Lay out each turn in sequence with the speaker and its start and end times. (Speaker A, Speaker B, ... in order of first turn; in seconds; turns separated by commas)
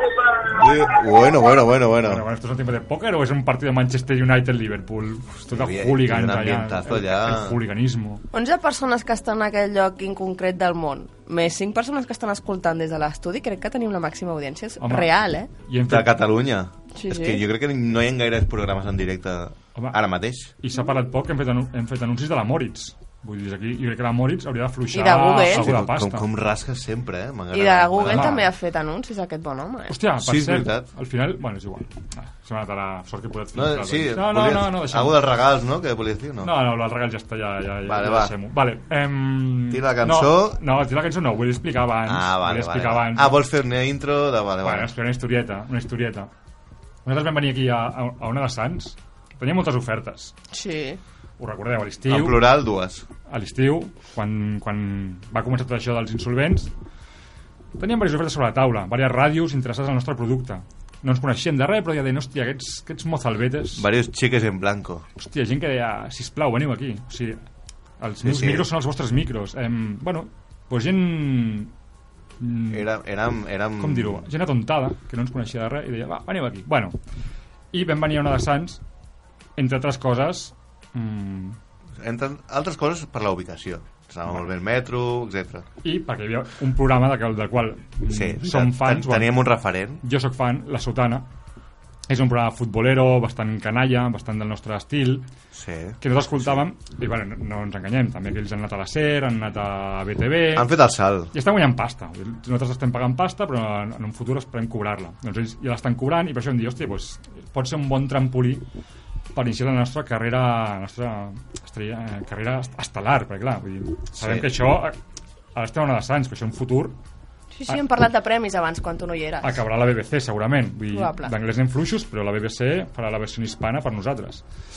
Speaker A: 0.5-2.2, Speaker B: 2.0-8.2, Speaker A: 5.5-7.6, Speaker C: 8.3-15.5, Speaker B: 14.8-15.1, Speaker B: 15.7-16.2, Speaker A: 15.9-20.5, Speaker C: 16.9-17.4, Speaker B: 20.5-26.3, Speaker C: 24.9-25.7, Speaker A: 25.5-28.4, Speaker C: 27.5-29.9, Speaker B: 28.1-28.4, Speaker B: 29.9-35.2, Speaker A: 30.2-30.9, Speaker A: 33.5-36.5, Speaker B: 36.4-43.4, Speaker A: 37.9-38.3, Speaker A: 39.7-40.6, Speaker A: 42.0-44.9, Speaker B: 44.6-46.3, Speaker B: 47.0-50.3, Speaker C: 50.5-51.0, Speaker B: 51.4-52.5, Speaker A: 52.1-53.0, Speaker B: 53.3-56.7, Speaker B: 57.8-63.9, Speaker A: 63.8-65.0, Speaker B: 65.2-67.4, Speaker B: 68.0-71.7, Speaker A: 68.2-68.6, Speaker B: 72.4-72.9, Speaker A: 72.7-74.2, Speaker B: 73.8-76.9, Speaker B: 77.7-78.8, Speaker B: 79.6-81.6, Speaker A: 82.0-85.7, Speaker B: 85.8-89.3, Speaker A: 88.1-90.0, Speaker B: 90.0-91.3, Speaker B: 92.1-95.2, Speaker A: 95.5-96.6, Speaker B: 96.0-100.7, Speaker A: 100.5-101.3, Speaker B: 101.3-108.6, Speaker B: 109.3-115.0, Speaker A: 114.1-114.5, Speaker B: 115.5-117.0, Speaker C: 117.5-119.5, Speaker B: 119.4-124.4, Speaker C: 120.9-121.3